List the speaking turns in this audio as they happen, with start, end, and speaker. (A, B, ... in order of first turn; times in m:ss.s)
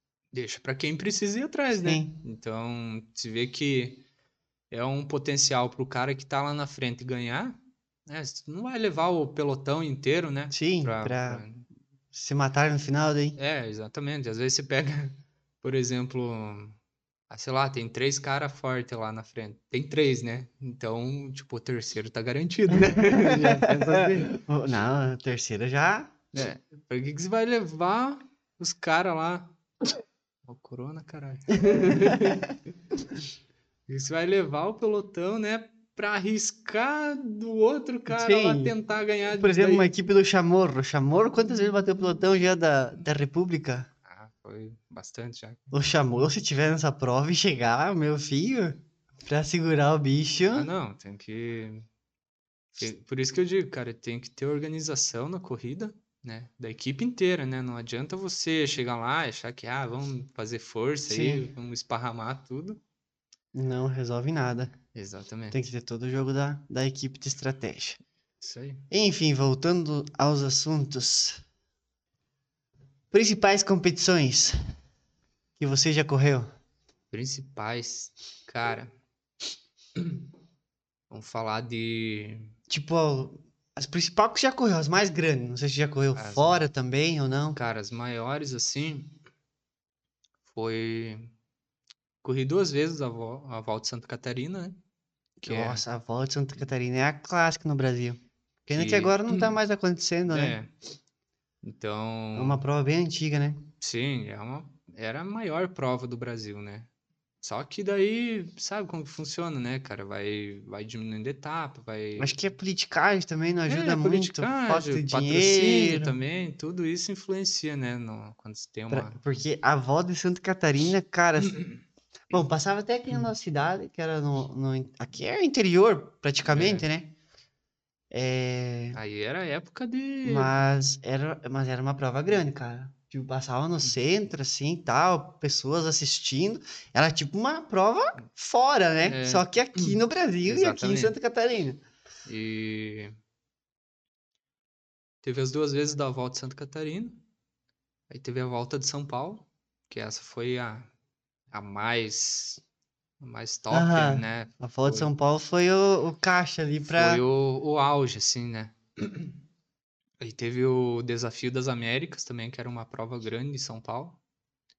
0:00.3-0:04.1 A
0:01.7-0:02.2 B
0:04.7-0:11.6 A
0:10.5-0:11.4 B
0:12.1-0:13.4 B
0:13.4-0:16.8 A
0:17.3-0:24.4 A
0:22.9-0:26.1 B
0:26.3-0:29.6 A
0:30.4-0:32.6 A
0:31.6-0:32.5 B
0:33.9-0:39.9 A
0:38.1-0:38.7 B
0:39.4-0:43.9 B
0:44.0-0:45.7 A
0:45.7-0:50.7 B
0:50.5-0:51.9 A
0:52.8-1:02.8 A
1:01.1-1:01.5 B
1:03.6-1:04.7 B
1:05.0-1:05.6 A
1:05.5-1:08.0 B
1:08.4-1:08.9 A
1:08.9-1:11.4 B
1:13.1-1:14.6 B
1:15.6-1:16.5 B
1:17.1-1:19.0 A
1:20.0-1:20.3 A
1:21.1-1:22.5 A
1:22.7-1:27.6 B
1:26.2-1:26.6 A
1:27.6-1:29.2 A
1:30.5-1:31.3 A
1:32.2-1:34.8 A
1:35.4-1:35.8 A
1:35.5-1:40.6 B
1:38.7-1:39.6 A
1:40.3-1:40.7 A
1:41.6-1:42.6 A
1:42.4-1:43.7 B
1:43.8-1:46.9 A
1:47.4-1:52.3 A
1:52.2-1:56.1 B
1:53.7-1:59.2 A
1:58.9-2:01.6 B
2:02.3-2:07.1 B
2:06.4-2:06.9 A
2:08.1-2:09.0 B
2:09.0-2:10.5 A
2:10.2-2:21.8 B
2:19.0-2:21.2 A
2:22.2-2:23.2 A
2:25.2-2:27.2 A
2:28.1-2:30.9 A
2:31.5-2:32.6 A
2:33.2-2:35.1 A
2:33.7-2:37.2 B
2:36.9-2:39.4 A
2:40.2-2:44.2 A